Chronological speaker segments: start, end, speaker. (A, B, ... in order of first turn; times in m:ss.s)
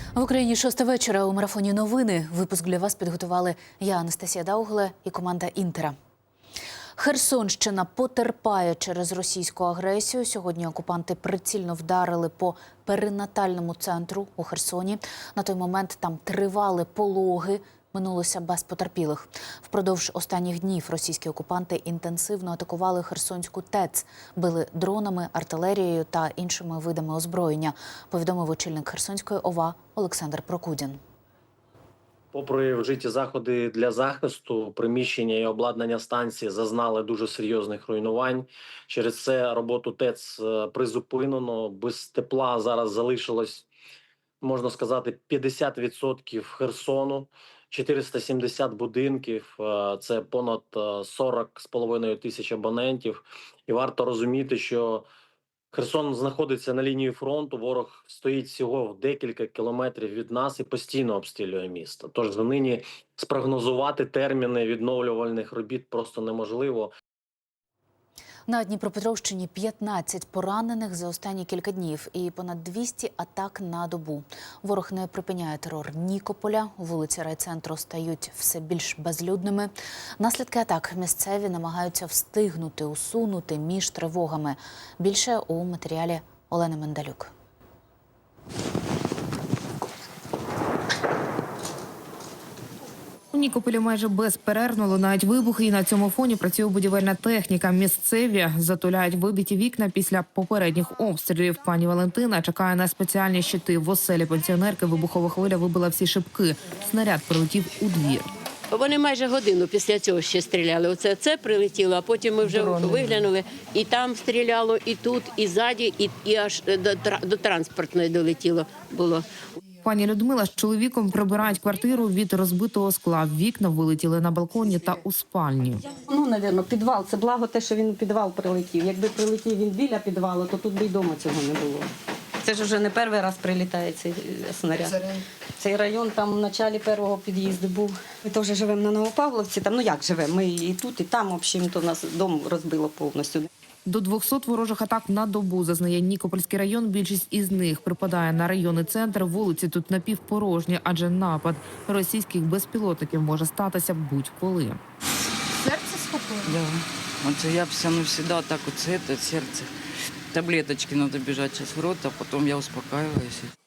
0:00.2-0:06.0 A
0:07.0-0:31.0 A
0:32.3-0:43.6 B
0:44.4-0:55.0 B
0:55.7-1:06.9 B
1:08.5-1:27.3 A
1:33.3-1:48.3 C
1:48.7-1:59.2 D
1:59.8-2:05.8 C
2:06.1-2:11.9 E
2:12.4-2:15.0 E
2:15.6-2:23.4 E
2:23.8-2:34.8 C
2:36.4-2:39.7 F
2:40.3-2:43.5 F